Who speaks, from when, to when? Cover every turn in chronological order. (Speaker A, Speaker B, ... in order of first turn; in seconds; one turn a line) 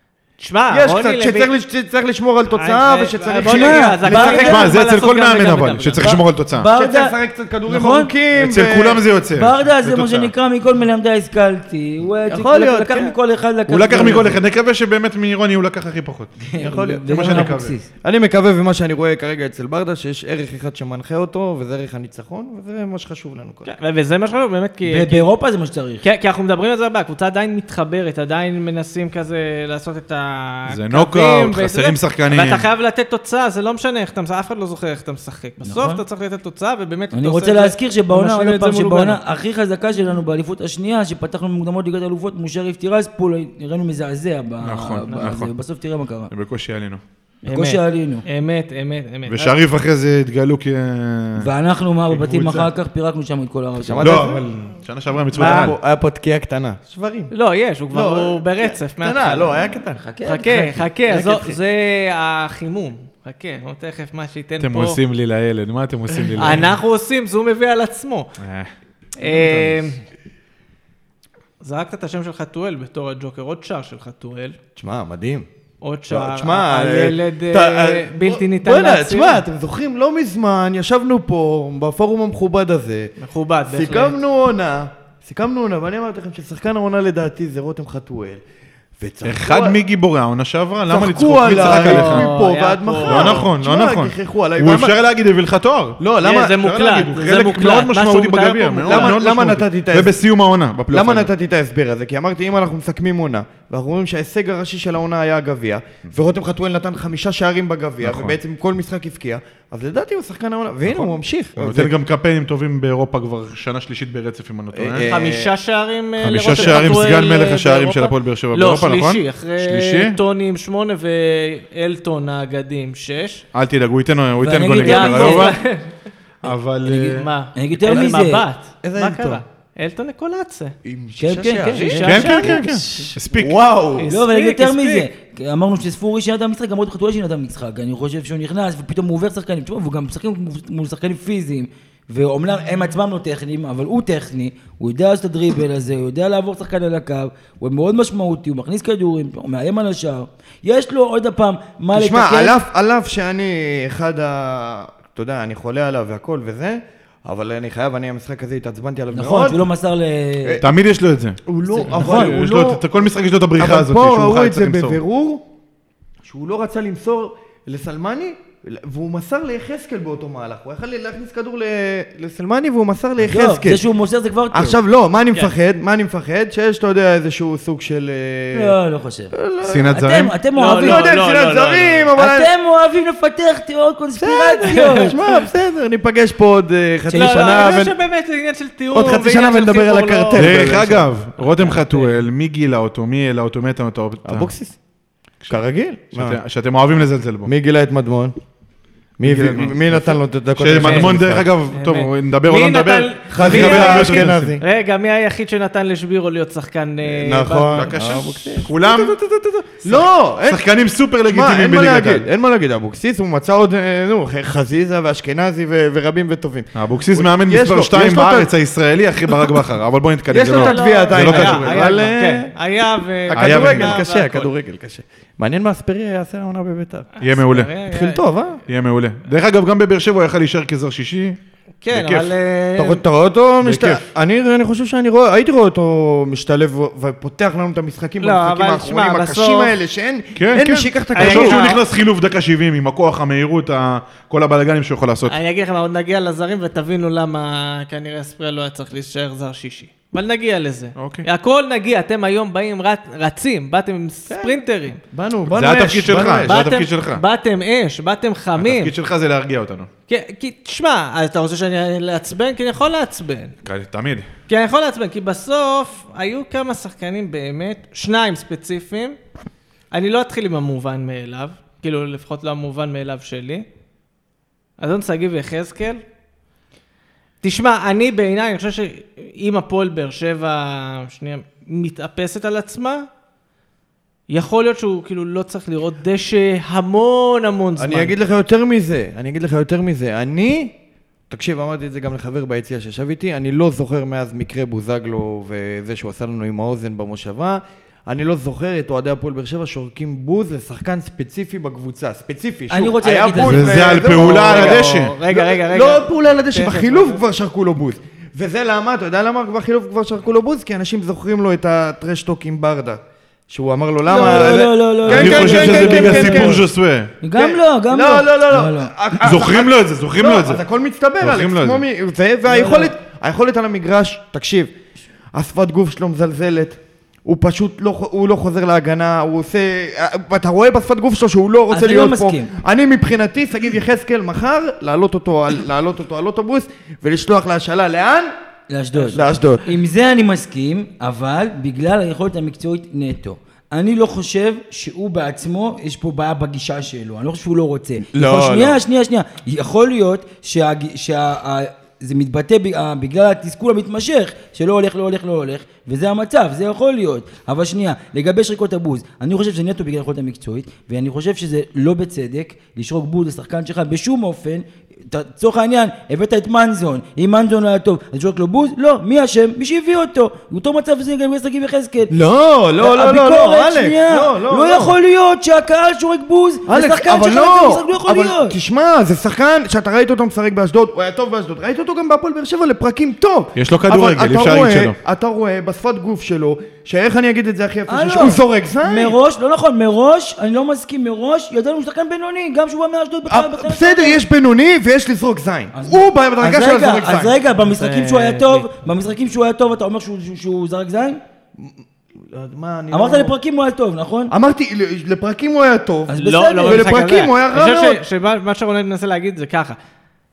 Speaker A: 0.4-1.5
Speaker B: 0.7-4.6
Speaker A: 2.5-6.1
Speaker C: 3.5-4.7
Speaker D: 4.2-6.7
Speaker C: 6.0-7.2
Speaker B: 6.7-9.1
Speaker C: 7.7-8.1
Speaker D: 8.3-10.3
Speaker C: 9.3-14.4
Speaker B: 12.3-13.2
Speaker D: 13.7-16.3
Speaker C: 16.5-17.9
Speaker B: 16.6-23.7
Speaker D: 17.1-17.7
Speaker A: 23.6-25.3
Speaker C: 24.9-26.0
Speaker A: 26.0-39.2
Speaker D: 30.7-32.6
Speaker C: 35.6-36.0
Speaker C: 37.1-46.3
Speaker D: 44.6-45.5
Speaker D: 46.3-47.0
Speaker C: 47.4-48.2
Speaker A: 47.5-49.6
Speaker D: 49.3-51.5
Speaker C: 51.4-54.2
Speaker D: 52.1-52.7
Speaker B: 53.8-54.5
Speaker D: 54.0-55.8
Speaker B: 55.3-57.3
Speaker A: 55.4-55.7
Speaker A: 57.3-59.6
Speaker B: 57.9-60.0
Speaker C: 60.0-60.8
Speaker A: 60.2-65.0
Speaker B: 61.1-61.6
Speaker D: 64.6-66.7
Speaker A: 66.3-68.3
Speaker D: 68.4-68.7
Speaker A: 69.2-70.0
Speaker B: 69.2-69.8
Speaker A: 71.6-74.6
Speaker B: 74.8-75.5
Speaker A: 75.8-79.4
Speaker B: 76.1-83.1
Speaker A: 83.2-84.2
Speaker B: 83.7-88.4
Speaker B: 89.0-89.8
Speaker D: 89.2-92.3
Speaker B: 90.9-95.0
Speaker A: 91.5-93.5
Speaker D: 93.0-96.0
Speaker B: 96.0-96.6
Speaker A: 96.2-99.2
Speaker D: 96.5-101.3
Speaker B: 98.8-100.2
Speaker B: 100.9-111.9
Speaker D: 108.0-108.4
Speaker D: 110.9-115.1
Speaker B: 114.7-115.5
Speaker A: 115.0-123.4
Speaker D: 116.2-120.2
Speaker D: 123.5-125.6
Speaker C: 124.4-125.5
Speaker A: 124.8-125.9
Speaker D: 126.4-127.3
Speaker A: 127.0-130.7
Speaker C: 127.5-128.4
Speaker B: 127.9-128.2
Speaker B: 128.8-129.4
Speaker B: 130.8-134.1
Speaker C: 131.2-133.1
Speaker A: 131.8-133.1
Speaker D: 132.0-133.6
Speaker A: 134.0-135.1
Speaker C: 134.1-152.6
Speaker B: 151.9-159.6
Speaker C: 159.1-160.6
Speaker B: 160.4-160.7
Speaker D: 160.6-165.0
Speaker B: 161.5-162.8
Speaker C: 161.8-162.4
Speaker B: 163.6-165.5
Speaker B: 166.2-173.8
Speaker C: 173.3-174.8
Speaker B: 174.5-178.8
Speaker C: 178.5-179.3
Speaker B: 179.3-180.0
Speaker D: 179.6-180.3
Speaker C: 179.9-181.1
Speaker A: 180.6-182.1
Speaker B: 180.8-182.5
Speaker C: 182.2-185.2
Speaker B: 184.2-188.0
Speaker A: 184.7-185.4
Speaker C: 187.1-187.7
Speaker A: 187.1-192.2
Speaker B: 188.9-191.0
Speaker D: 190.3-194.5
Speaker B: 194.2-194.8
Speaker B: 195.5-196.4
Speaker D: 196.1-197.5
Speaker B: 197.4-198.3
Speaker B: 199.2-201.5
Speaker D: 199.2-204.6
Speaker A: 200.8-201.1
Speaker A: 201.7-207.9
Speaker B: 203.3-204.6
Speaker B: 207.0-210.7
Speaker D: 207.7-209.2
Speaker D: 209.8-212.3
Speaker B: 211.2-218.5
Speaker D: 216.8-222.1
Speaker B: 219.3-219.6
Speaker B: 220.3-222.5
Speaker A: 220.4-224.5
Speaker B: 223.3-227.1
Speaker D: 223.3-224.0
Speaker A: 227.2-228.2
Speaker D: 227.2-227.7
Speaker B: 227.9-228.6
Speaker D: 228.7-231.4
Speaker A: 231.8-233.0
Speaker D: 231.9-232.3
Speaker B: 232.8-241.7
Speaker D: 233.6-234.0
Speaker A: 238.2-239.7
Speaker D: 240.4-245.4
Speaker A: 241.2-241.8
Speaker A: 245.3-255.0
Speaker D: 251.0-251.3
Speaker B: 254.3-254.6
Speaker B: 255.1-256.6
Speaker D: 255.5-257.2
Speaker A: 256.4-258.9
Speaker D: 258.6-259.9
Speaker A: 260.1-263.5
Speaker D: 263.6-264.3
Speaker A: 264.5-269.2
Speaker A: 269.9-273.6
Speaker A: 274.8-276.0
Speaker A: 277.4-283.1
Speaker A: 284.3-288.1
Speaker B: 287.8-290.8
Speaker B: 291.3-316.7
Speaker C: 302.7-303.9
Speaker D: 303.4-305.1
Speaker A: 304.0-307.2
Speaker C: 314.1-316.6
Speaker D: 315.1-317.1
Speaker C: 317.2-318.9
Speaker B: 317.4-324.7
Speaker D: 319.2-320.6
Speaker D: 321.2-321.8
Speaker C: 322.5-322.9
Speaker B: 325.3-338.3
Speaker C: 331.7-332.5
Speaker C: 338.7-372.1
Speaker B: 339.1-339.7
Speaker B: 348.1-348.8
Speaker B: 372.1-375.0
Speaker C: 372.8-378.6
Speaker B: 376.7-389.2
Speaker D: 383.6-384.9
Speaker C: 387.9-394.2
Speaker B: 393.3-397.4
Speaker C: 395.7-401.2
Speaker A: 397.7-398.7
Speaker B: 401.6-403.4
Speaker C: 402.9-404.3
Speaker B: 404.3-408.0
Speaker C: 406.1-406.9
Speaker A: 406.2-409.8